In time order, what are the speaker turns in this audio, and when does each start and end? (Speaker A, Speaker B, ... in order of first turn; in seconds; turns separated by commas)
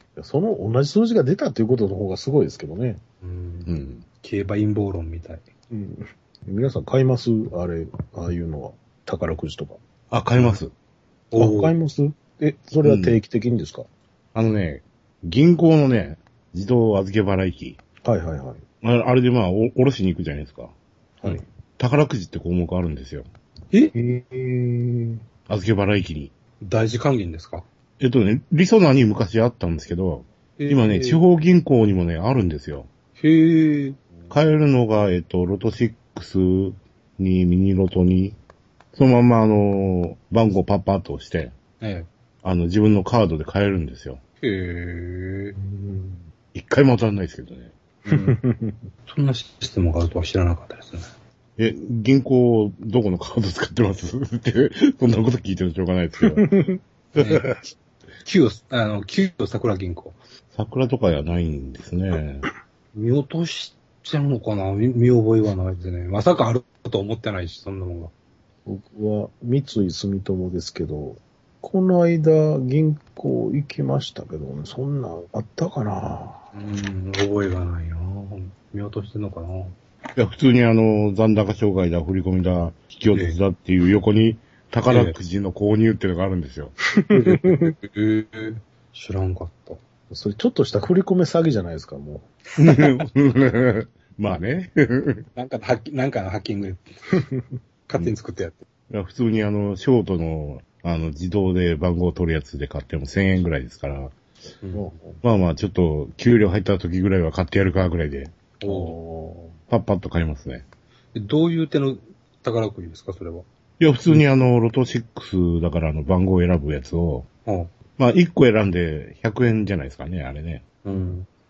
Speaker A: 0.2-3.0, Speaker B: 3.2-5.4, Speaker C: 3.6-4.0, Speaker A: 5.7-9.8, Speaker C: 10.1-10.7, Speaker B: 11.3-11.7, Speaker A: 11.3-13.9, Speaker C: 12.8-13.2, Speaker C: 14.3-17.8, Speaker A: 18.0-18.6, Speaker C: 18.8-20.7, Speaker C: 21.8-23.2, Speaker A: 23.9-25.2, Speaker C: 25.5-26.3, Speaker B: 26.6-27.6, Speaker C: 28.0-32.9, Speaker B: 30.6-31.2, Speaker B: 33.2-34.0, Speaker C: 34.3-38.4, Speaker C: 38.9-41.5, Speaker B: 41.8-42.1, Speaker C: 42.4-44.2, Speaker B: 44.4-45.6, Speaker A: 45.6-46.2, Speaker C: 46.5-47.7, Speaker B: 48.1-48.4, Speaker A: 48.1-48.8, Speaker B: 49.1-51.0, Speaker C: 51.6-56.5, Speaker A: 56.3-56.8, Speaker B: 57.1-57.7, Speaker C: 57.2-57.5, Speaker B: 58.2-60.2, Speaker C: 60.5-62.5, Speaker B: 62.9-68.1, Speaker A: 68.7-76.4, Speaker B: 76.5-79.7, Speaker C: 80.2-86.8, Speaker B: 83.1-83.4, Speaker B: 84.9-85.2, Speaker A: 87.0-87.7, Speaker B: 87.1-89.8, Speaker A: 90.1-92.3, Speaker C: 92.6-95.2, Speaker B: 92.6-92.9, Speaker B: 95.3-97.2, Speaker B: 97.9-98.6, Speaker C: 98.9-104.2, Speaker A: 104.7-105.2, Speaker C: 105.2-108.3, Speaker B: 108.6-108.9, Speaker A: 108.6-109.5, Speaker C: 109.7-110.6, Speaker B: 111.1-113.5, Speaker C: 113.8-117.3, Speaker B: 117.4-117.7, Speaker C: 118.0-120.7, Speaker B: 120.8-121.3